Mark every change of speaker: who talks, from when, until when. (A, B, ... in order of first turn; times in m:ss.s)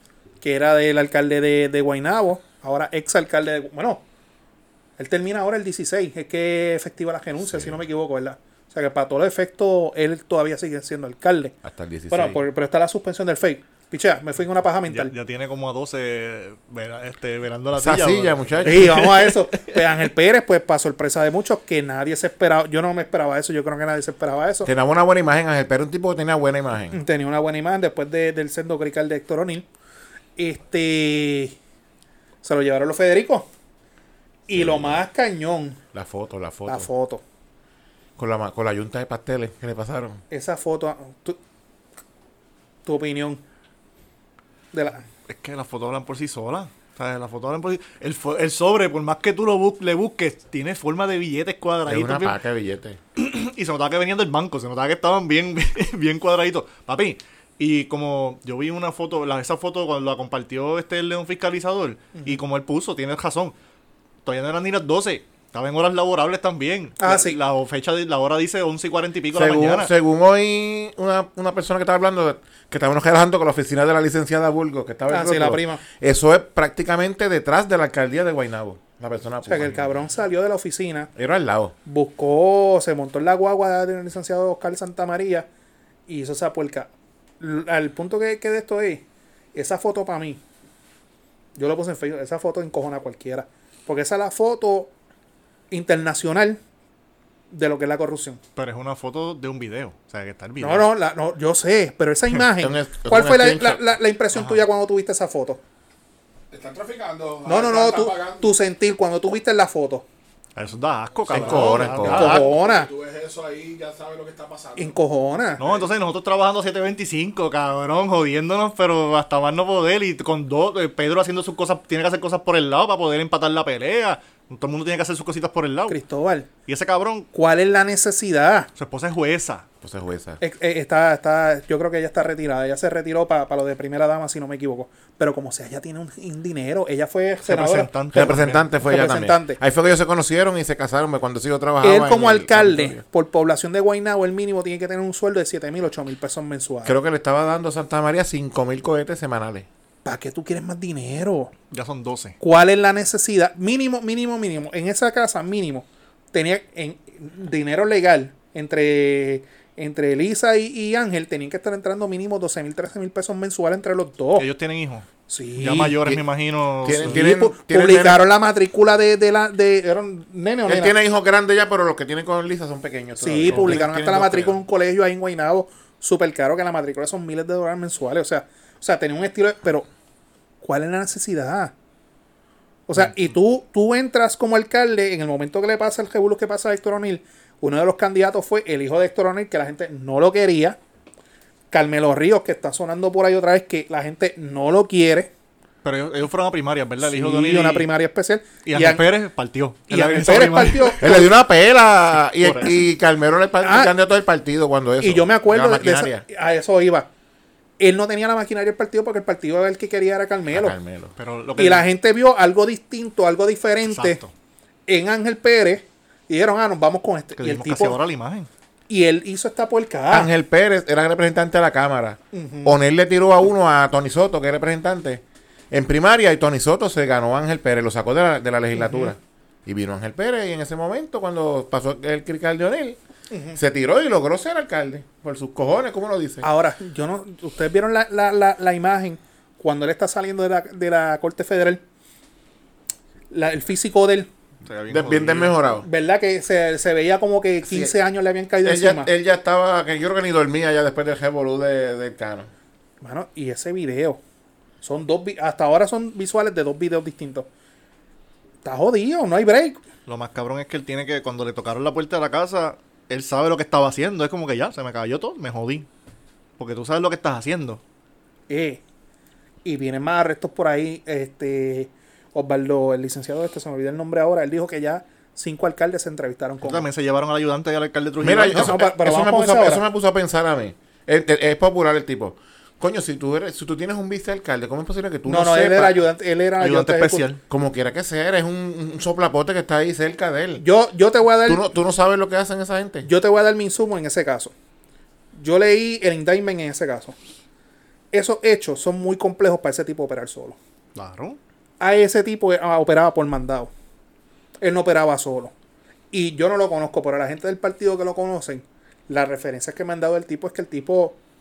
0:00.4-0:04.0 A
0:05.0-0:11.6 A
0:07.4-0:07.8 B
0:11.6-0:12.4 B
0:12.1-0:15.1 A
0:14.9-0:19.8 C
0:17.8-0:19.1 B
0:18.6-0:24.7 A
0:24.6-0:27.0 B
0:26.9-0:29.7 A
0:30.4-0:31.6 A
0:32.4-0:33.5 A
0:34.5-0:35.8 A
0:34.5-0:35.0 B
0:35.9-0:36.9 B
0:36.7-0:37.2 A
0:38.2-0:40.2 B
0:40.3-0:41.4 A
0:42.8-0:43.4 A
0:44.7-0:45.0 A
0:45.3-0:52.4 C
0:51.8-0:53.0 B
0:53.2-1:03.5 C
1:04.2-1:09.9 C
1:07.0-1:07.4 A
1:09.3-1:20.0 B
1:15.1-1:15.8 A
1:19.4-1:21.1 A
1:21.2-1:21.7 B
1:21.8-1:25.5 A
1:26.1-1:30.4 A
1:31.6-1:34.9 A
1:35.7-1:36.6 A
1:37.5-1:38.4 A
1:38.6-1:40.8 C
1:40.6-1:45.6 A
1:42.6-1:43.8 B
1:44.3-1:44.6 C
1:46.5-1:48.5 D
1:47.4-1:50.0 A
1:50.5-1:52.5 C
1:51.3-1:52.5 B
1:51.3-1:55.0 D
1:52.1-1:52.9 A
1:54.8-1:55.6 A
1:55.6-1:55.9 D
1:55.6-2:06.0 C
2:05.9-2:06.5 A
2:06.6-2:07.3 C
2:07.3-2:08.7 A
2:08.8-2:09.6 C
2:09.8-2:10.4 B
2:10.4-2:17.9 A
2:17.4-2:18.6 C
2:18.1-2:23.0 B
2:18.8-2:19.6 A
2:21.8-2:26.9 A
2:26.8-2:29.7 B
2:30.0-2:31.5 A
2:31.7-2:32.4 C
2:32.4-2:44.5 A
2:44.4-2:47.2 C
2:45.3-2:46.0 A
2:46.8-2:48.2 B
2:46.9-2:50.9 A
2:50.7-2:54.1 B
2:53.2-2:59.9 A
2:53.5-2:54.5 C
3:00.6-3:01.7 A
3:02.9-3:10.8 A
3:11.7-3:15.3 A
3:15.8-3:17.9 C
3:17.0-3:19.0 A
3:18.6-3:21.0 C
3:19.9-3:21.3 A
3:21.0-3:26.2 B
3:22.4-3:22.7 C
3:23.6-3:23.9 A
3:25.0-3:27.1 A
3:27.8-3:30.8 A
3:30.5-3:31.1 B
3:31.2-3:31.8 C
3:31.6-3:34.2 A
3:33.9-3:34.3 C
3:34.9-3:38.0 A
3:37.4-3:38.5 C
3:38.9-3:40.3 A
3:40.1-3:53.0 B
3:42.3-3:42.8 A
3:48.8-3:49.1 A
3:53.3-3:53.6 A
3:53.5-3:56.4 B
3:56.4-4:01.8 A
4:03.3-4:04.3 A
4:04.6-4:05.6 C
4:04.9-4:05.8 B
4:05.8-4:09.1 A
4:07.6-4:07.9 B
4:08.6-4:12.5 B
4:13.0-4:14.2 A
4:14.8-4:17.5 A
4:18.6-4:19.8 A
4:20.1-4:25.9 C
4:26.6-4:27.8 C
4:28.5-4:28.8 A
4:29.6-4:36.9 A
4:36.6-4:38.8 C
4:38.2-4:46.0 B
4:38.5-4:39.8 A
4:45.2-4:47.3 A
4:46.6-4:47.4 C
4:47.5-4:50.6 B
4:50.6-4:51.6 A
4:51.4-4:53.1 B
4:53.0-4:54.5 A
4:55.3-4:57.1 A
4:58.1-5:00.6 A
5:00.9-5:01.4 C
5:01.8-5:03.7 A
5:04.6-5:05.5 A
5:06.1-5:11.2 A